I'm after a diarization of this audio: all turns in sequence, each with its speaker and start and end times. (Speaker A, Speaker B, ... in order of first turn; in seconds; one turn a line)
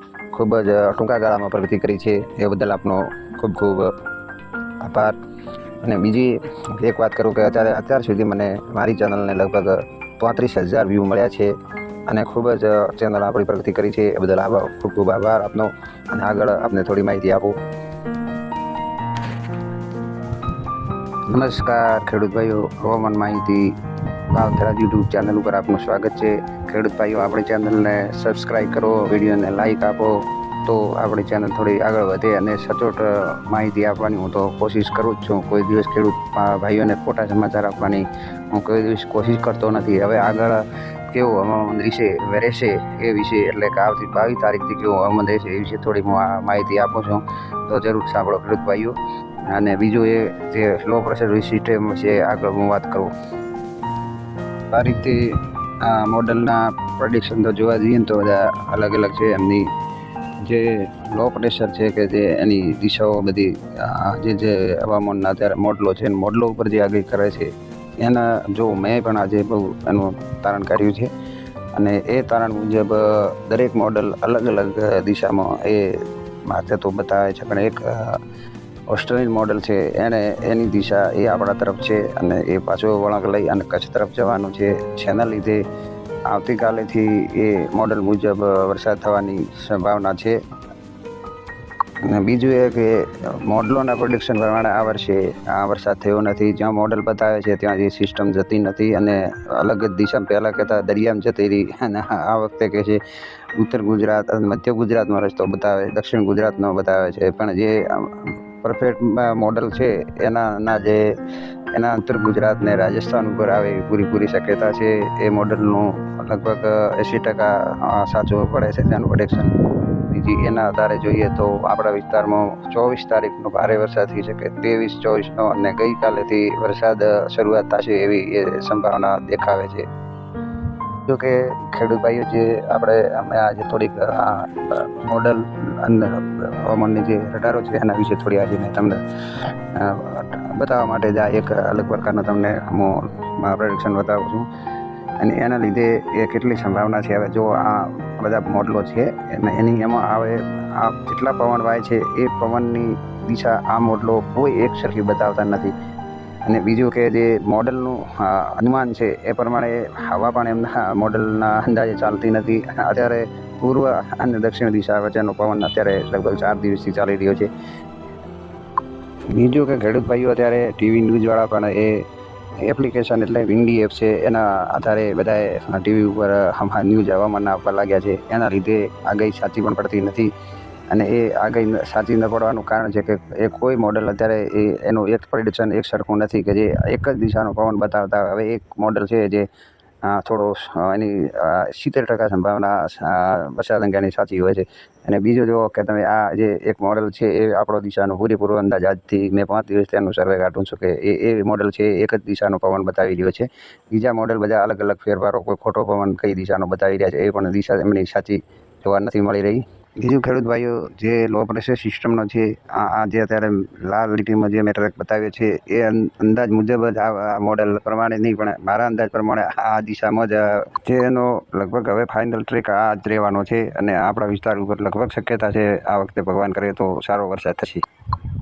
Speaker A: 0.3-3.9
Speaker A: 4.8-5.2
Speaker A: 5.8-11.5
Speaker A: 12.1-17.6
Speaker A: 21.3-23.8
Speaker A: 24.3-49.0
Speaker A: 49.5-53.1
Speaker A: 54.7-59.7
Speaker A: 60.4-71.1
Speaker A: 71.7-78.2
Speaker A: 78.9-85.6
Speaker A: 86.3-90.4
Speaker A: 92.0-103.0
Speaker A: 103.5-111.1
Speaker A: 111.7-129.8
Speaker A: 131.1-144.5
Speaker A: 145.2-155.7
Speaker A: 156.4-167.5
Speaker A: 169.3-172.0
Speaker A: 172.6-180.3
Speaker A: 180.9-189.5
Speaker A: 190.0-227.8